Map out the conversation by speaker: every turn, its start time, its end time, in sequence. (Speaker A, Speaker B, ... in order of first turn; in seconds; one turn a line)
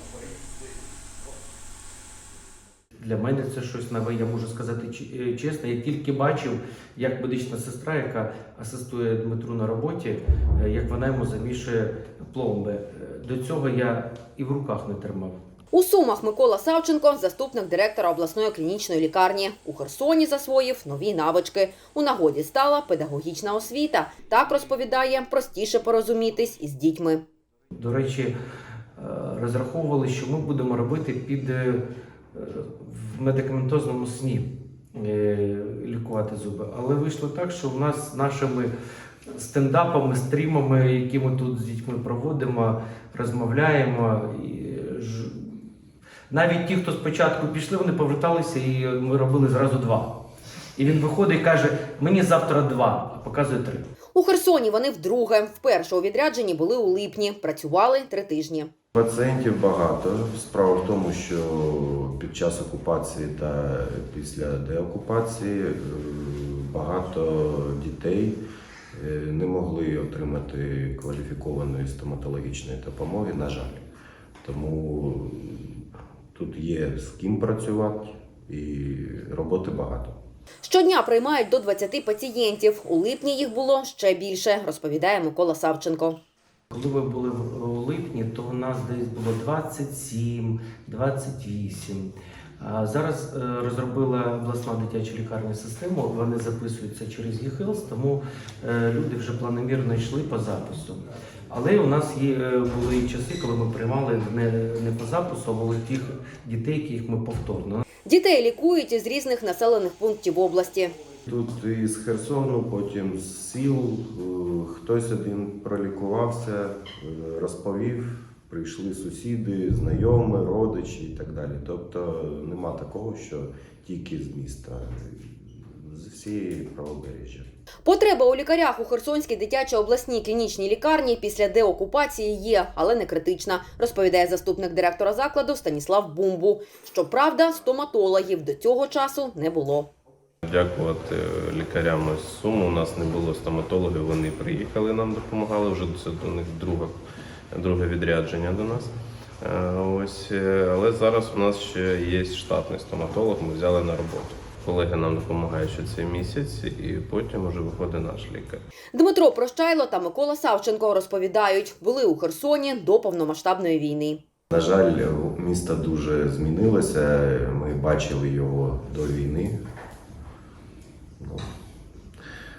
Speaker A: 3.0-15.3
Speaker B: 15.7-27.2
Speaker A: 27.8-28.3
Speaker A: 29.0-31.8
Speaker A: 32.3-38.7
Speaker A: 39.3-45.6
Speaker A: 46.3-50.2
Speaker A: 50.8-53.9
Speaker B: 54.1-58.7
Speaker C: 58.9-68.4
Speaker C: 68.9-73.8
Speaker C: 74.4-75.8
Speaker C: 76.3-80.1
Speaker B: 80.6-86.2
Speaker A: 86.7-107.8
Speaker B: 108.1-111.0
Speaker C: 111.3-127.5
Speaker B: 127.8-139.9
Speaker D: 140.4-147.0
Speaker D: 147.5-158.6
Speaker B: 158.9-164.2
Speaker C: 164.5-169.6
Speaker C: 171.2-171.5